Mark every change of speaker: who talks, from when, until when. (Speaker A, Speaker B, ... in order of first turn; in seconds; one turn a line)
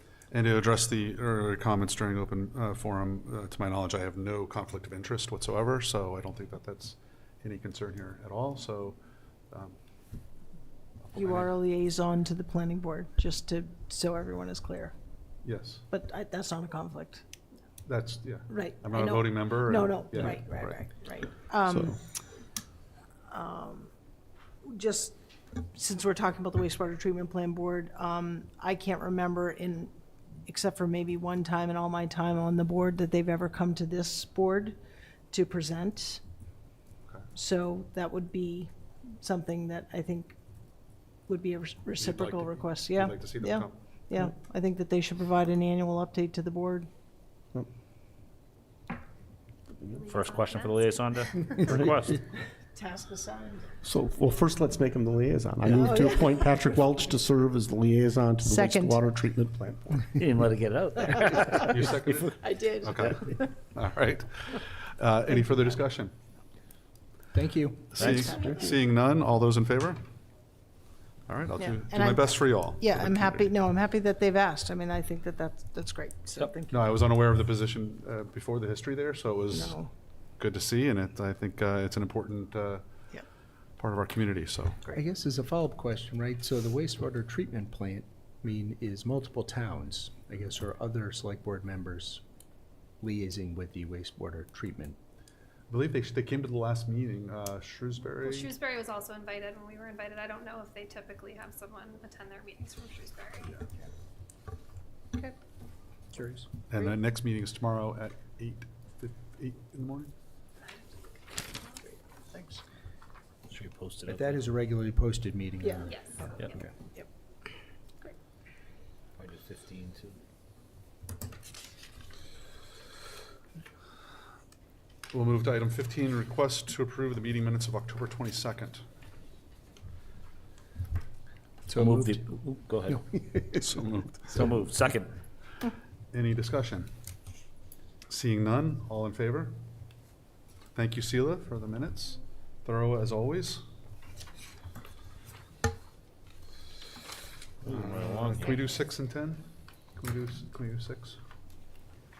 Speaker A: 0.3-9.0
Speaker A: 9.5-9.8
Speaker A: 11.1-11.5
Speaker B: 11.1-14.9
Speaker A: 15.4-15.8
Speaker B: 15.9-17.2
Speaker A: 17.9-20.8
Speaker B: 18.5-22.0
Speaker C: 21.7-21.9
Speaker B: 23.3-23.9
Speaker B: 24.6-29.9
Speaker B: 30.4-34.8
Speaker B: 35.3-36.2
Speaker B: 37.3-40.3
Speaker B: 41.3-46.9
Speaker A: 42.0-43.8
Speaker D: 49.8-51.6
Speaker E: 50.1-52.2
Speaker B: 52.7-53.7
Speaker C: 53.8-60.1
Speaker B: 55.7-56.3
Speaker B: 58.4-59.0
Speaker E: 60.1-62.3
Speaker A: 61.6-66.1
Speaker B: 62.3-63.5
Speaker F: 67.3-68.3
Speaker A: 67.9-70.0
Speaker B: 68.2-68.7
Speaker A: 71.3-73.5
Speaker B: 71.6-77.0
Speaker A: 76.7-79.8
Speaker B: 79.5-79.9
Speaker A: 80.4-82.8
Speaker A: 83.8-84.8
Speaker F: 84.9-92.2
Speaker F: 93.0-95.0
Speaker A: 95.7-98.5
Speaker D: 98.2-103.6
Speaker F: 106.1-106.5
Speaker A: 106.7-110.1
Speaker B: 111.7-112.6
Speaker E: 113.5-114.5
Speaker F: 114.1-116.7
Speaker B: 115.6-116.3
Speaker D: 115.9-116.6
Speaker E: 119.2-120.2
Speaker A: 125.1-128.8
Speaker F: 131.7-132.2
Speaker E: 131.7-133.2
Speaker F: 132.9-133.7
Speaker A: 133.5-134.5
Speaker E: 134.3-135.1
Speaker A: 136.1-136.9
Speaker A: 138.1-139.6
Speaker A: 140.7-143.6
Speaker E: 147.6-148.6
Speaker A: 147.7-149.4
Speaker A: 149.9-151.2